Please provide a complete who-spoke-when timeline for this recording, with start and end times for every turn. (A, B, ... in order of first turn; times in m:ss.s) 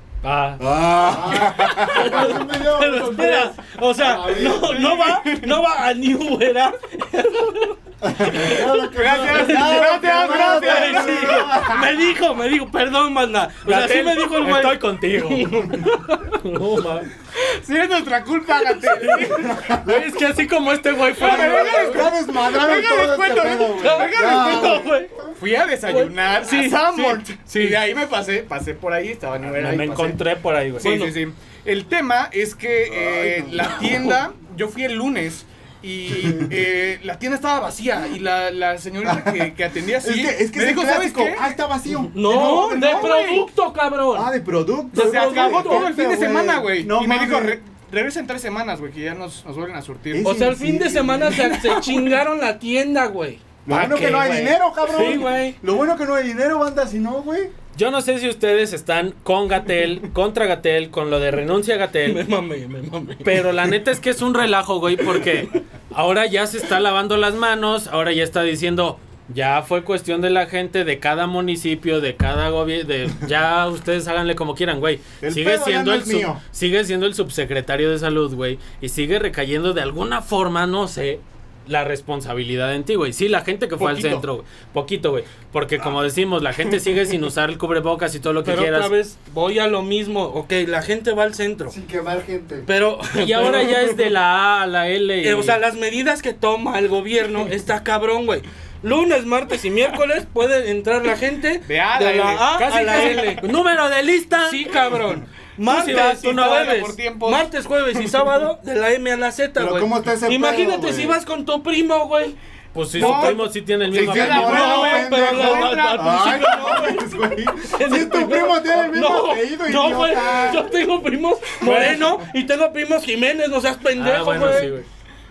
0:00.2-0:00.6 A
0:00.6-0:02.3 B
0:01.0-0:03.5 C
0:01.7-0:02.2 A
0:02.1-0:08.4 D
0:02.8-0:03.4 A
0:04.0-0:04.9 C
0:04.4-0:05.5 E
0:08.0-0:11.9 B
0:08.4-0:11.0 C
0:08.9-0:11.5 E
0:09.3-0:16.4 D
0:13.6-0:17.1 A
0:17.4-0:19.7 E
0:18.9-0:22.0 A
0:19.4-0:20.0 B
0:21.1-0:30.2 E
0:21.2-0:25.0 B
0:23.8-0:25.1 D
0:24.4-0:25.1 A
0:25.8-0:27.8 D
0:29.5-0:31.0 A
0:30.8-0:41.4 E
0:30.8-0:31.2 D
0:32.9-0:33.9 B
0:36.1-0:36.5 B
0:39.0-0:43.2 B
0:42.1-0:44.3 D
0:42.2-0:43.5 E
0:44.1-0:47.6 B
0:44.9-0:45.9 D
0:44.9-0:50.4 E
0:50.1-0:52.1 B
0:50.2-0:55.6 D
0:53.6-0:57.5 B
0:57.7-1:02.2 A
1:02.0-1:03.5 D
1:03.2-1:28.9 A
1:15.2-1:16.4 B
1:23.8-1:24.2 E
1:28.4-1:31.8 D
1:31.7-1:32.7 C
1:32.6-1:34.0 D
1:33.1-1:35.6 A
1:35.2-1:43.4 D
1:41.6-1:43.4 E
1:43.0-1:44.7 A
1:44.4-1:52.4 D
1:45.6-1:46.9 A
1:45.7-1:48.1 E
1:49.6-1:51.2 B
1:52.7-1:54.8 A
1:52.9-1:57.0 E
1:53.0-1:53.4 D
1:53.9-2:00.7 B
1:54.3-1:57.0 D
1:57.6-2:04.7 D
2:01.6-2:02.2 A
2:04.0-2:04.9 A